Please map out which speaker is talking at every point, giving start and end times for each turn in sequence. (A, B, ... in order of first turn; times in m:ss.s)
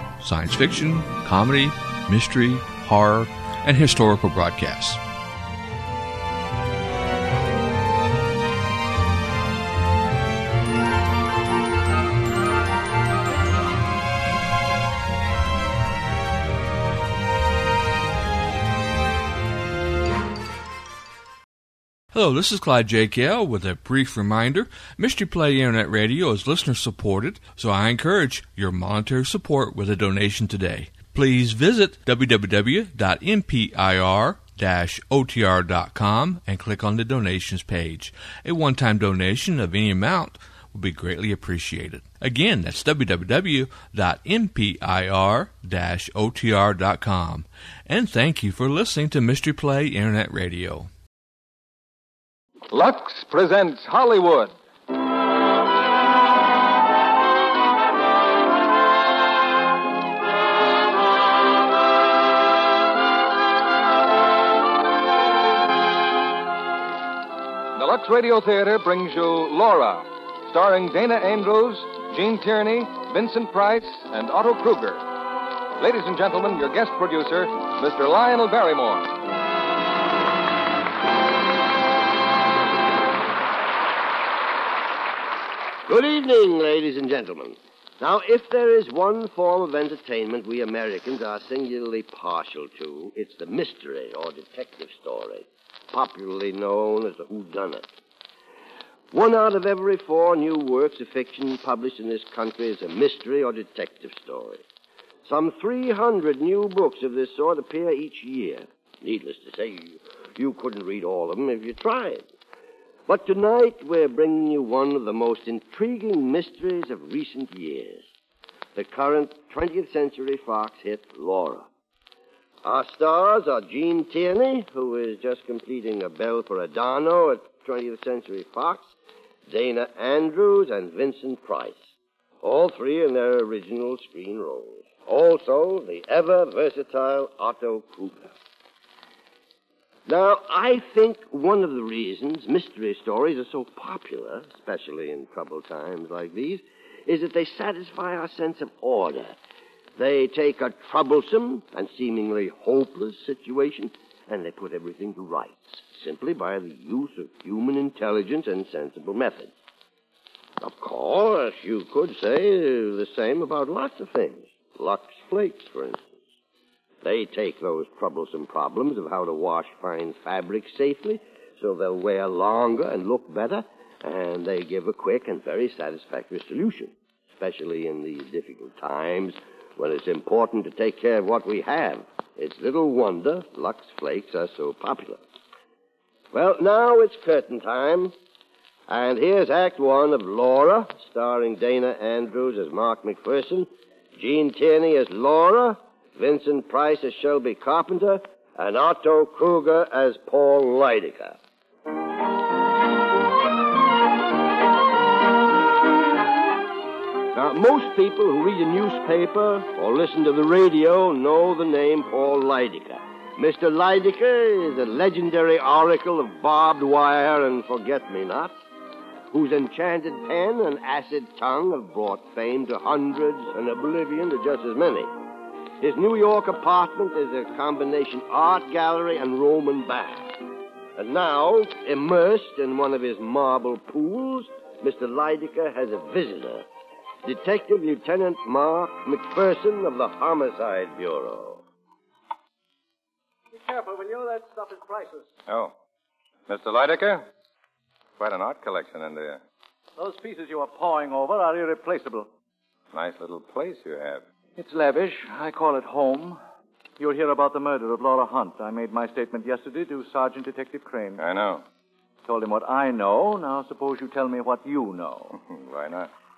0:00.2-0:05.0 A
0:22.1-0:50.9 A
0:52.7-0:54.5 B
1:07.8-1:15.0 B
1:15.8-1:19.1 B
1:25.9-1:37.9 C
1:39.1-1:44.6 C
1:45.2-1:52.3 C
1:53.1-1:58.0 C
1:58.8-2:01.7 C
2:02.6-2:08.9 C
2:09.5-2:11.9 C
2:12.4-2:18.3 C
2:20.1-2:29.4 C
2:30.0-2:39.5 C
2:40.6-2:46.0 C
2:47.0-3:05.2 C
3:06.3-3:08.1 C
3:08.9-3:21.4 C
3:27.3-3:38.6 C
3:39.3-3:45.1 C
3:45.8-3:50.4 C
3:51.0-3:56.6 C
3:57.2-4:01.6 C
4:03.5-4:05.2 D
4:05.5-4:05.7 E
4:06.5-4:07.2 E
4:08.2-4:09.4 E
4:10.0-4:12.3 D
4:12.9-4:14.2 E
4:14.6-4:16.4 D
4:17.0-4:21.2 D
4:21.2-4:21.6 E
4:22.3-4:25.4 D
4:25.4-4:26.1 E